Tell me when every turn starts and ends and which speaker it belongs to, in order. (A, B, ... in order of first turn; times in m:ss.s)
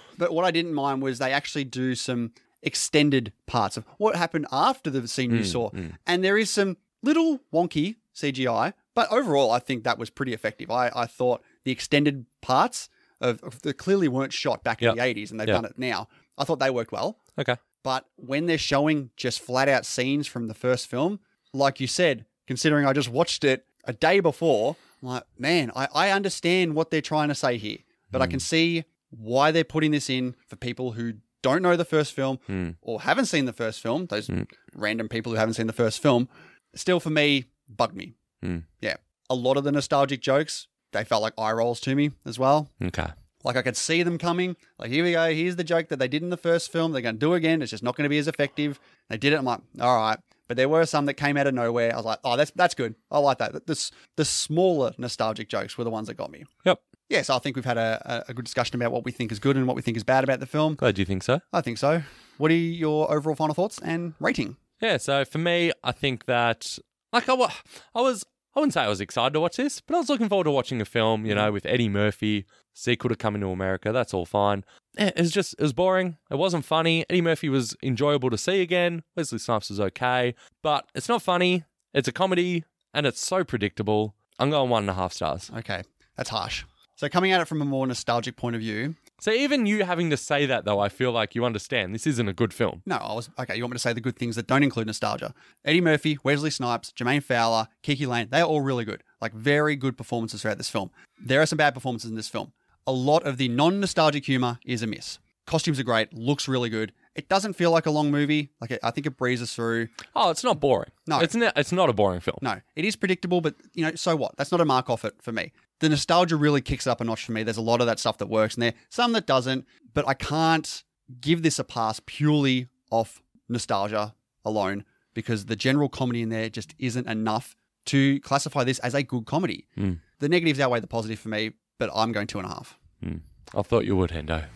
0:00.2-0:17.2 A
0:05.3-0:05.9 B
0:14.8-0:15.6 B
0:17.8-0:38.1 A
0:28.1-0:28.4 B
0:32.5-0:32.8 B
0:38.8-0:42.7 A
0:42.8-0:43.1 B
0:43.4-0:56.5 A
0:57.1-1:00.8 A
1:00.8-1:01.4 B
1:01.5-1:04.6 A
1:04.8-1:25.5 B
1:25.5-1:29.0 A
1:29.2-1:32.8 B
1:32.9-1:50.0 A
1:50.1-1:52.4 B
1:51.1-1:51.3 A
1:52.4-2:12.8 A
2:13.0-2:14.5 B